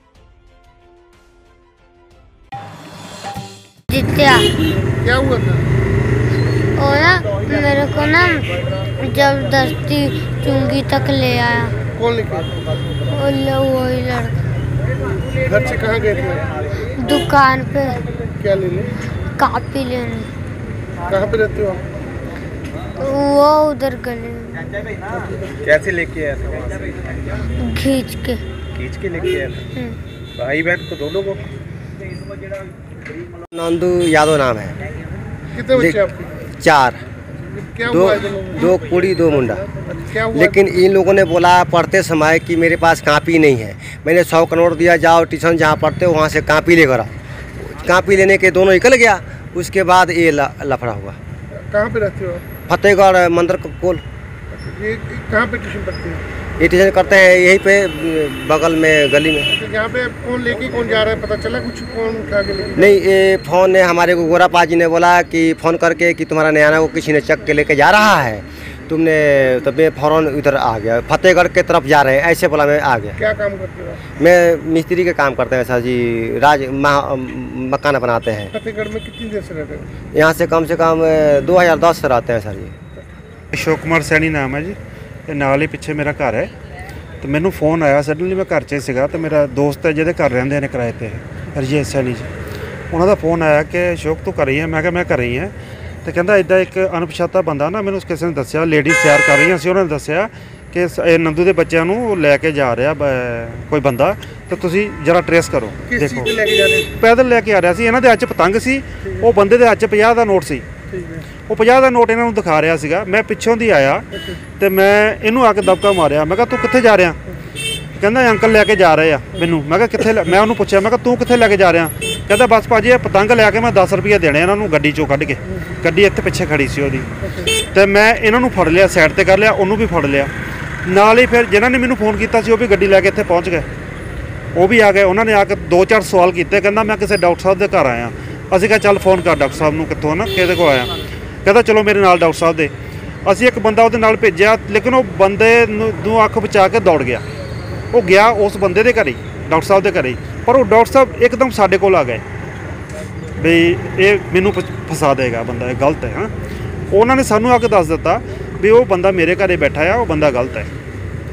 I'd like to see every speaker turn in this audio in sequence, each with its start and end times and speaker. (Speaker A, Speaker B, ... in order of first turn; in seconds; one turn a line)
Speaker A: 3.9-4.5
Speaker B: 5.0-5.7
Speaker A: 6.8-11.7
Speaker B: 11.9-12.5
Speaker A: 13.1-14.4
Speaker B: 15.4-16.4
Speaker A: 17.0-18.0
Speaker B: 18.4-18.9
Speaker A: 19.3-20.3
Speaker B: 21.1-21.8
Speaker A: 23.0-24.6
Speaker C: 25.6-27.0
Speaker A: 27.6-28.4
Speaker C: 28.8-29.6
Speaker C: 30.4-31.4
Speaker D: 33.5-34.8
Speaker B: 35.5-36.3
Speaker D: 35.7-37.0
Speaker B: 37.4-38.7
Speaker D: 37.9-39.7
Speaker B: 39.9-40.7
Speaker D: 40.3-51.2
Speaker B: 51.7-52.5
Speaker D: 52.6-54.0
Speaker B: 54.5-56.2
Speaker D: 56.6-59.5
Speaker B: 59.5-62.9
Speaker D: 62.8-73.2
Speaker B: 73.2-74.0
Speaker D: 74.1-78.5
Speaker B: 78.5-79.9
Speaker D: 80.1-82.7
Speaker E: 83.5-86.5
Speaker E: 87.2-92.3
Speaker E: 92.9-95.5
Speaker E: 96.0-106.3
Speaker B: 105.8-106.9
Speaker E: 107.0-110.7
Speaker B: 110.9-111.3
Speaker E: 111.5-114.0
Speaker E: 114.6-117.2
Speaker E: 118.0-127.1
Speaker B: 127.2-127.5
Speaker E: 127.7-130.3
Speaker E: 130.8-133.7
Speaker E: 134.5-140.9
Speaker E: 141.4-142.7
Speaker E: 143.2-147.2
Speaker E: 147.9-152.2
Speaker E: 153.4-156.3
Speaker E: 156.9-160.7